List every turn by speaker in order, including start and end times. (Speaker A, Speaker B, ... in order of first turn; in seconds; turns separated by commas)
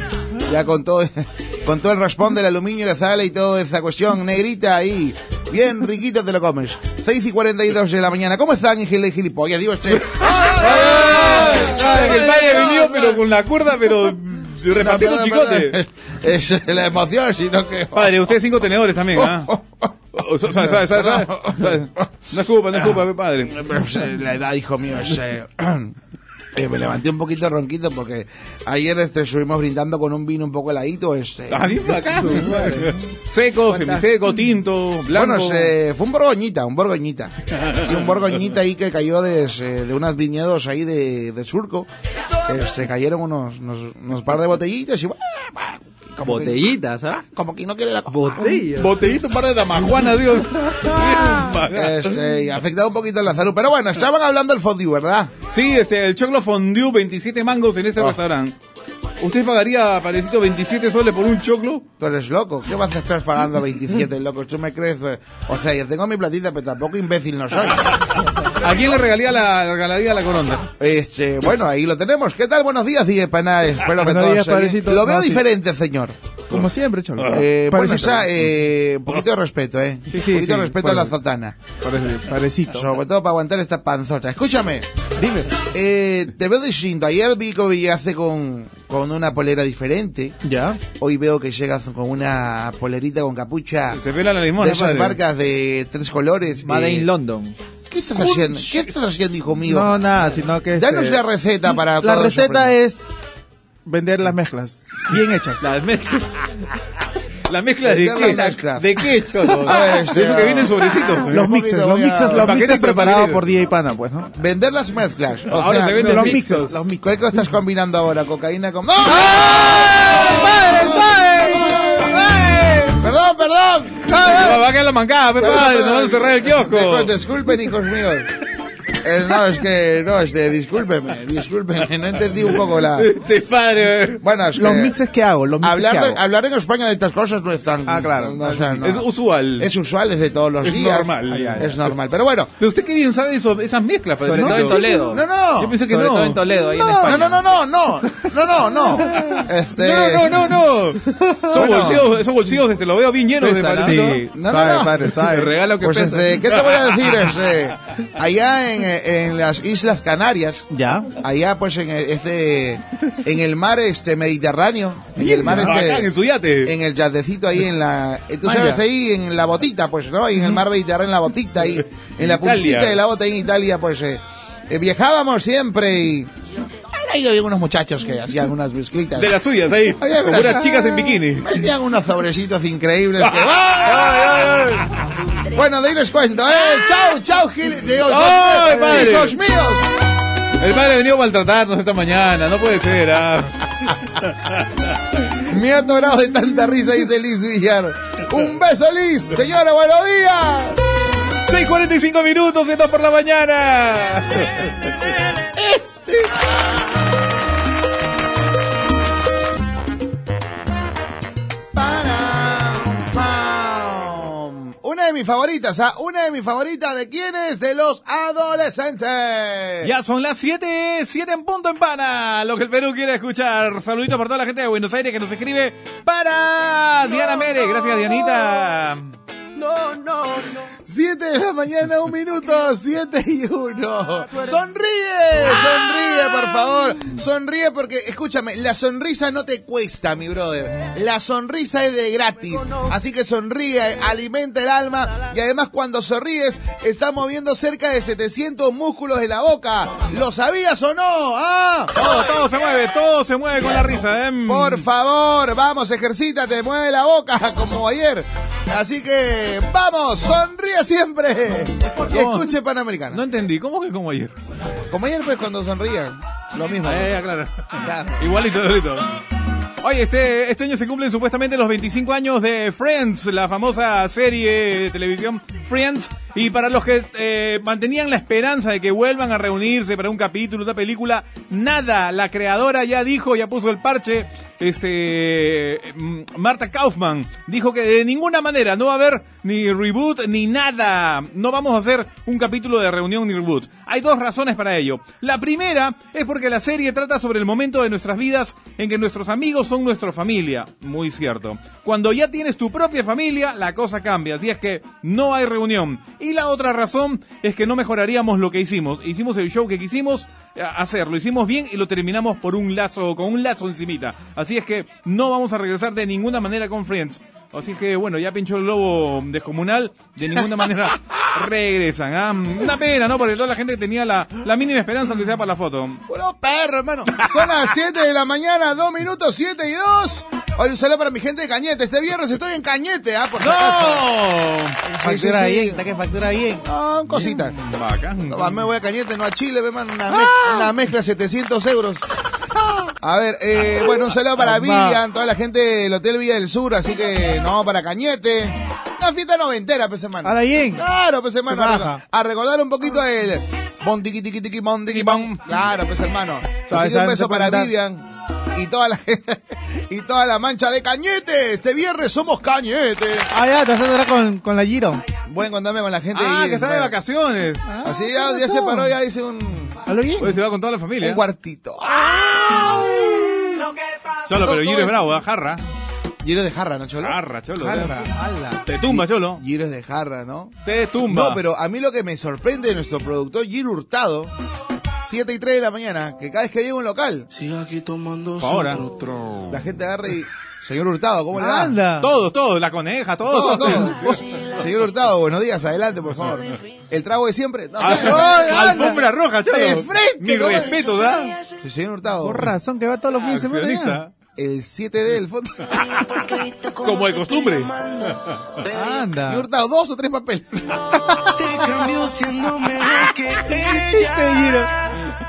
Speaker A: 0.4-13.2, Speaker B: 10.2-15.8, Speaker A: 14.8-18.3, Speaker B: 17.9-19.6, Speaker A: 19.1-19.9, Speaker B: 20.1-23.7, Speaker A: 20.5-21.9, Speaker A: 22.8-25.9, Speaker A: 26.5-31.8, Speaker B: 31.5-35.7, Speaker C: 31.9-33.0, Speaker C: 33.7-34.1, Speaker A: 35.1-41.9, Speaker A: 42.5-46.7, Speaker C: 46.2-47.2, Speaker A: 47.3-48.6, Speaker C: 48.1-48.9, Speaker B: 48.5-52.2, Speaker A: 51.7-55.3, Speaker B: 55.5-58.5, Speaker B: 59.2-61.9, Speaker A: 62.0-68.0, Speaker B: 68.6-70.7, Speaker A: 70.8-76.2, Speaker D: 74.0-75.4, Speaker D: 76.5-78.3, Speaker B: 77.2-77.5, Speaker A: 77.2-81.6, Speaker D: 80.1-81.2, Speaker D: 81.7-82.9, Speaker A: 82.7-84.9, Speaker D: 85.2-85.6, Speaker A: 85.7-94.0, Speaker D: 90.4-90.8, Speaker B: 93.9-95.2, Speaker A: 94.6-97.1, Speaker C: 96.6-97.5, Speaker A: 97.9-100.0, Speaker D: 99.7-101.2, Speaker A: 100.8-102.8, Speaker D: 101.8-103.0, Speaker D: 103.9-105.7, Speaker C: 105.6-106.3, Speaker B: 107.5-111.4, Speaker A: 107.8-108.9, Speaker C: 108.8-109.8, Speaker A: 109.6-112.5, Speaker D: 111.3-114.3, Speaker B: 112.3-113.4, Speaker A: 114.3-116.4, Speaker B: 115.5-116.9, Speaker D: 115.8-117.0, Speaker A: 117.0-122.2, Speaker B: 119.1-123.0, Speaker A: 123.0-124.6, Speaker B: 124.1-127.1, Speaker A: 125.4-128.3, Speaker A: 129.0-133.1, Speaker B: 132.9-134.2, Speaker A: 134.2-135.0, Speaker D: 134.6-136.2, Speaker A: 135.6-142.5, Speaker D: 137.9-138.7, Speaker B: 138.8-139.7, Speaker B: 140.6-141.8, Speaker D: 141.3-141.7, Speaker B: 142.6-144.8, Speaker C: 144.2-145.2, Speaker D: 144.3-145.2, Speaker A: 145.1-145.8, Speaker B: 145.6-146.4, Speaker C: 145.8-147.6, Speaker D: 146.8-147.2, Speaker A: 147.0-150.5, Speaker B: 149.3-154.3, Speaker D: 151.2-151.6, Speaker A: 151.5-152.1, Speaker C: 153.4-154.2, Speaker D: 153.8-155.6, Speaker A: 154.3-155.2, Speaker C: 155.1-156.4, Speaker A: 155.7-166.1, Speaker B: 156.5-157.3, Speaker D: 160.7-161.1, Speaker B: 165.2-166.8, Speaker A: 166.6-176.3, Speaker D: 168.4-168.8, Speaker B: 172.2-173.0, Speaker A: 176.9-184.9, Speaker B: 179.2-181.6, Speaker B: 183.2-184.6, Speaker A: 185.5-189.9, Speaker B: 188.1-189.4, Speaker B: 190.6-194.6, Speaker A: 195.3-200.8, Speaker B: 201.4-204.8, Speaker A: 205.5-206.5, Speaker A: 211.7-219.9, Speaker B: 219.8-229.1, Speaker E: 229.6-230.5, Speaker A: 230.9-252.0, Speaker B: 252.0-254.9, Speaker A: 254.5-263.2, Speaker B: 262.0-262.5, Speaker B: 263.1-264.3, Speaker A: 264.9-267.2, Speaker B: 266.8-269.1, Speaker B: 269.8-326.0, Speaker A: 326.1-334.1, Speaker B: 333.4-334.8, Speaker D: 334.9-336.6, Speaker A: 335.0-335.9, Speaker A: 336.6-337.6, Speaker B: 337.2-338.6, Speaker A: 338.3-342.0, Speaker A: 343.0-363.3, Speaker D: 344.4-345.0, Speaker D: 350.2-350.8, Speaker D: 351.5-352.0, Speaker B: 354.9-355.4, Speaker D: 356.7-357.7, Speaker D: 363.3-365.0, Speaker A: 365.3-367.0, Speaker B: 366.1-367.6, Speaker D: 367.6-368.9, Speaker A: 367.8-369.8, Speaker D: 369.9-370.4, Speaker B: 370.2-371.2, Speaker A: 371.0-373.1, Speaker B: 374.3-375.6, Speaker A: 374.4-375.0, Speaker A: 376.2-377.2, Speaker B: 377.0-379.4, Speaker D: 377.6-378.6, Speaker A: 378.8-384.3, Speaker B: 380.6-381.4, Speaker A: 385.0-387.3, Speaker E: 387.4-389.4, Speaker B: 388.4-389.0, Speaker A: 389.5-391.8, Speaker D: 391.3-392.1, Speaker B: 392.0-394.5, Speaker A: 393.3-400.9, Speaker E: 394.1-394.5, Speaker B: 397.8-401.4, Speaker D: 397.9-399.0, Speaker E: 400.9-401.4, Speaker A: 401.6-402.6, Speaker D: 402.2-404.0, Speaker B: 403.2-404.1, Speaker A: 404.4-405.8, Speaker E: 406.1-409.0, Speaker B: 406.8-408.6, Speaker D: 408.7-409.5, Speaker A: 409.2-410.8, Speaker E: 411.3-414.7, Speaker D: 413.8-414.7